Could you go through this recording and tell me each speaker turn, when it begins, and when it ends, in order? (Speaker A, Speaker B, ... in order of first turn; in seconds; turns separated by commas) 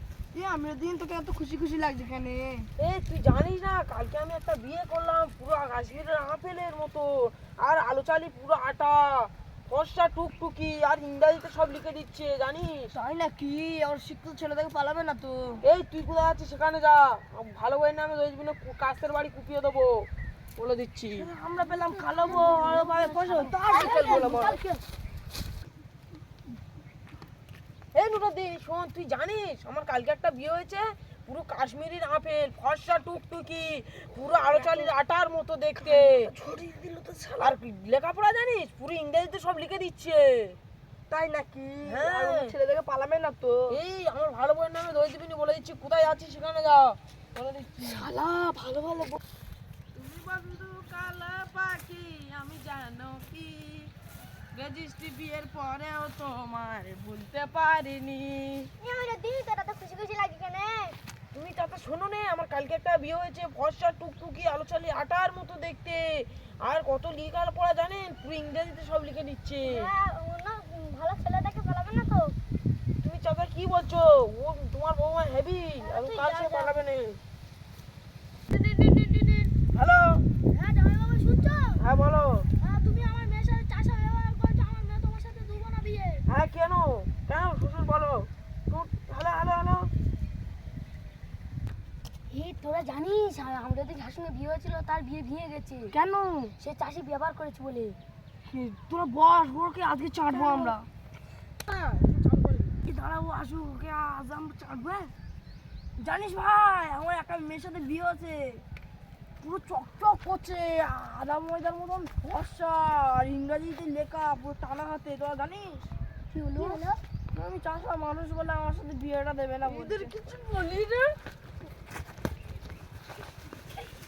Speaker A: 0.3-2.7, Speaker B: 2.8-12.9, Speaker A: 12.9-15.6, Speaker B: 15.6-20.1, Speaker B: 20.6-21.3, Speaker A: 21.1-24.8, Speaker C: 21.6-24.5, Speaker B: 23.7-24.6, Speaker B: 27.9-36.3, Speaker A: 34.6-34.9, Speaker A: 35.8-37.5, Speaker B: 37.4-40.6, Speaker A: 41.1-43.8, Speaker B: 41.9-42.5, Speaker B: 43.7-48.1, Speaker A: 47.8-49.2, Speaker B: 49.9-53.9, Speaker B: 54.5-58.7, Speaker C: 58.8-61.0, Speaker B: 61.3-69.9, Speaker C: 69.6-72.3, Speaker B: 73.0-77.2, Speaker C: 75.8-76.8, Speaker C: 79.0-79.4, Speaker B: 79.5-80.3, Speaker C: 80.5-81.8, Speaker B: 81.8-82.5, Speaker C: 82.6-86.2, Speaker B: 86.3-89.9, Speaker C: 92.3-95.9, Speaker A: 95.9-96.5, Speaker C: 96.6-98.0, Speaker A: 98.5-100.9, Speaker B: 101.7-102.8, Speaker A: 102.8-105.1, Speaker A: 106.0-108.7, Speaker A: 109.4-115.9, Speaker C: 116.3-117.0, Speaker A: 117.3-120.2, Speaker B: 119.7-121.2